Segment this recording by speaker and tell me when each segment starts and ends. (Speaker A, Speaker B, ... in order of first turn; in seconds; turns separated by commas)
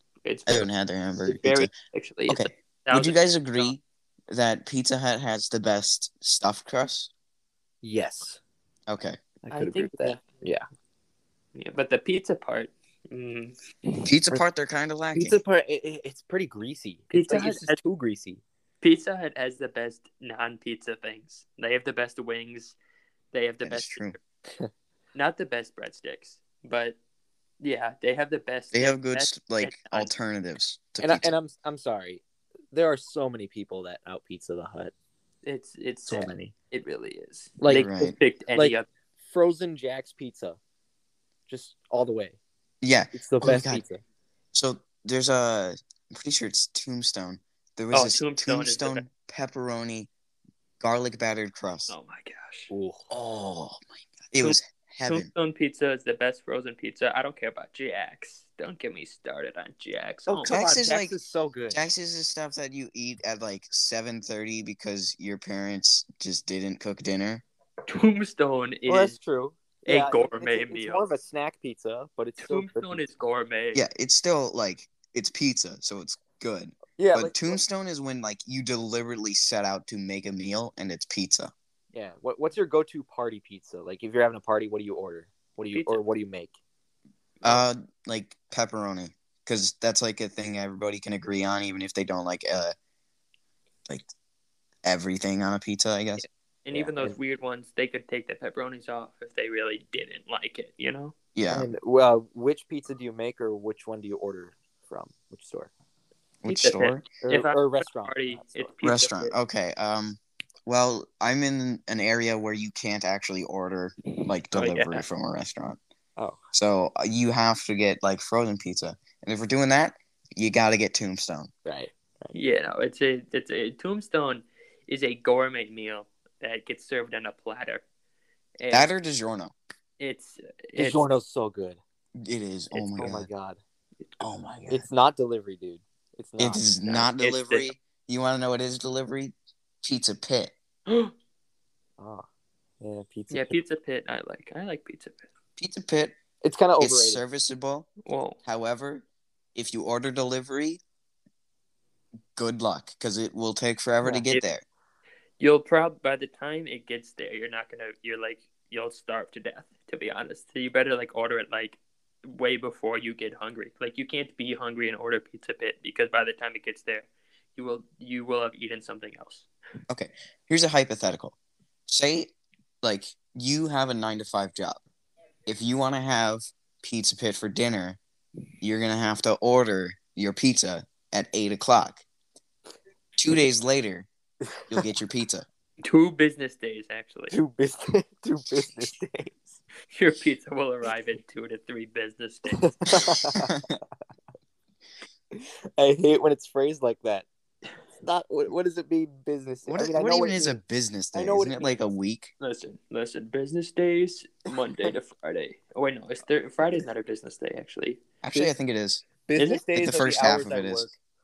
Speaker A: 0.2-0.7, Speaker B: 0.5-1.7, Speaker A: 1.2-3.7, Speaker B: 2.3-7.1, Speaker C: 7.8-8.4, Speaker B: 8.9-9.2, Speaker C: 9.4-10.6, Speaker A: 9.5-10.2, Speaker A: 11.5-14.0, Speaker B: 14.0-15.4, Speaker C: 15.1-18.4, Speaker A: 17.1-17.8, Speaker A: 18.8-22.8, Speaker A: 23.3-24.2, Speaker B: 23.6-24.1, Speaker A: 25.1-27.0, Speaker A: 27.6-30.1, Speaker B: 28.7-31.3, Speaker C: 31.0-34.9, Speaker A: 35.4-38.9, Speaker C: 36.1-36.5, Speaker C: 37.6-37.9, Speaker B: 37.7-38.1, Speaker C: 38.5-40.6, Speaker C: 41.5-42.4, Speaker B: 42.8-43.8, Speaker C: 43.1-44.0, Speaker B: 44.5-50.1, Speaker A: 47.9-49.0, Speaker B: 50.8-51.9, Speaker A: 51.9-52.7, Speaker C: 52.7-53.0, Speaker B: 53.1-55.3, Speaker A: 54.4-60.6, Speaker C: 60.3-61.8, Speaker B: 60.5-61.1, Speaker B: 61.7-67.4, Speaker A: 67.9-69.2, Speaker C: 68.9-73.0, Speaker A: 69.8-71.0, Speaker A: 72.4-73.8, Speaker B: 73.7-81.5, Speaker C: 77.0-77.6, Speaker C: 81.9-86.5, Speaker A: 85.7-86.0, Speaker B: 87.4-92.7, Speaker B: 94.8-96.2, Speaker A: 96.6-101.1, Speaker C: 96.7-97.2, Speaker B: 101.3-101.7, Speaker C: 101.5-105.7, Speaker B: 106.4-107.0, Speaker A: 106.5-109.3, Speaker C: 107.2-108.7, Speaker B: 108.8-115.8, Speaker A: 114.1-115.0, Speaker B: 116.5-121.5, Speaker C: 121.6-122.3, Speaker A: 122.3-127.8, Speaker A: 128.6-128.9, Speaker B: 128.7-129.5, Speaker A: 130.0-131.1, Speaker C: 130.8-131.8, Speaker B: 132.2-133.3, Speaker C: 132.7-133.6, Speaker B: 134.2-134.8, Speaker C: 134.7-137.1, Speaker B: 136.4-140.5, Speaker A: 137.2-137.7, Speaker A: 140.9-141.1, Speaker C: 142.0-142.2, Speaker C: 142.8-143.6, Speaker A: 143.3-145.3, Speaker B: 145.6-146.2, Speaker C: 146.4-147.2, Speaker B: 146.8-147.9, Speaker A: 148.0-148.4, Speaker B: 148.4-150.8, Speaker B: 152.3-154.6, Speaker C: 154.0-154.3, Speaker A: 155.4-169.5, Speaker B: 169.9-171.3, Speaker B: 171.9-174.8, Speaker B: 175.5-178.0, Speaker B: 178.6-182.0, Speaker B: 183.2-184.1, Speaker B: 184.7-185.4, Speaker A: 185.8-187.3, Speaker C: 187.3-189.6, Speaker A: 189.9-193.1, Speaker C: 192.6-193.5, Speaker B: 193.3-193.6, Speaker C: 195.3-197.2, Speaker C: 198.0-200.6, Speaker B: 199.7-202.3, Speaker C: 201.1-201.7, Speaker A: 202.4-208.0, Speaker B: 208.2-209.0, Speaker C: 209.3-210.9, Speaker A: 209.4-209.6, Speaker B: 209.7-210.9